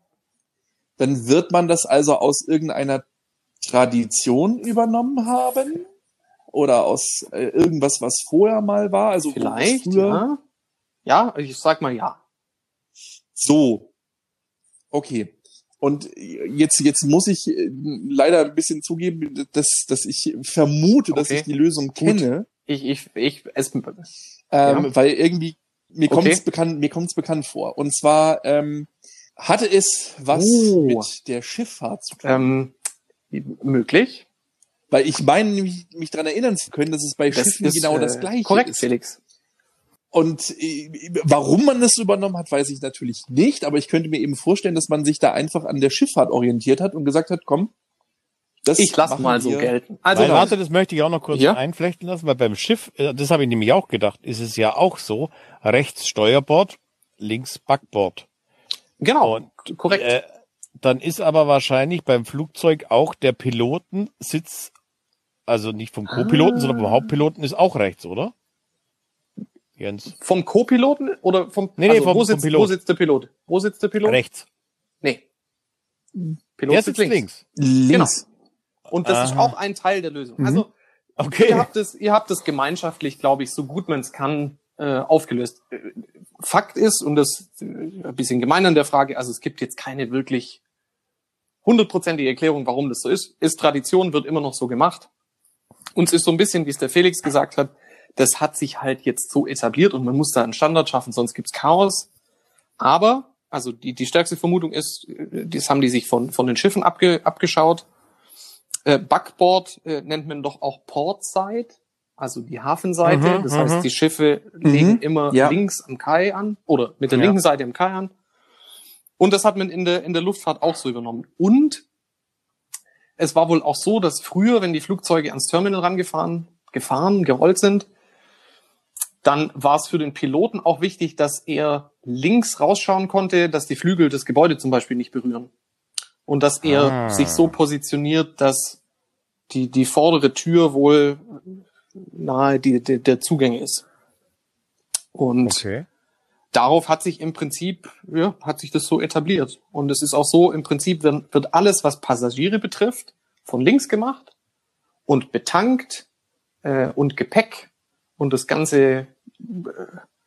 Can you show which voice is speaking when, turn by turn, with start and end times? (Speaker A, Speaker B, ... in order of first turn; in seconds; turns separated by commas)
Speaker A: 1.0-3.0, Speaker A: 3.6-5.8, Speaker A: 6.5-10.2, Speaker B: 9.3-10.4, Speaker B: 11.1-12.2, Speaker A: 13.3-13.9, Speaker A: 14.9-22.5, Speaker B: 21.1-24.1, Speaker A: 24.5-32.5, Speaker B: 24.6-24.9, Speaker B: 26.1-26.4, Speaker B: 30.3-31.1, Speaker B: 32.2-32.7, Speaker B: 33.3-34.2, Speaker A: 34.9-38.9, Speaker B: 37.3-39.2, Speaker A: 40.1-47.7, Speaker A: 48.6-50.5, Speaker B: 48.8-50.5, Speaker C: 50.1-58.2, Speaker B: 51.3-51.6, Speaker B: 59.0-60.1, Speaker C: 59.2-60.2, Speaker C: 60.8-64.7, Speaker C: 65.5-68.3, Speaker B: 66.1-67.1, Speaker C: 69.8-70.1, Speaker B: 70.1-74.2, Speaker C: 71.8-72.7, Speaker C: 74.0-74.5, Speaker B: 76.6-77.2, Speaker C: 76.7-77.4, Speaker A: 77.5-78.2, Speaker B: 77.9-78.2, Speaker B: 78.9-80.7, Speaker C: 79.0-79.5, Speaker A: 80.4-80.6, Speaker C: 81.2-81.7, Speaker B: 81.4-90.6, Speaker B: 91.6-95.1, Speaker B: 96.0-102.1, Speaker B: 102.8-107.8, Speaker B: 108.8-118.1, Speaker C: 113.0-113.9, Speaker A: 114.6-115.6, Speaker C: 117.1-117.4, Speaker B: 119.2-121.8, Speaker B: 123.2-127.9, Speaker B: 129.2-135.5, Speaker B: 136.3-138.8, Speaker C: 136.6-137.5, Speaker B: 139.5-143.8, Speaker B: 145.1-145.6, Speaker C: 145.4-145.8, Speaker B: 146.5-154.3, Speaker B: 155.1-156.1, Speaker B: 156.6-159.9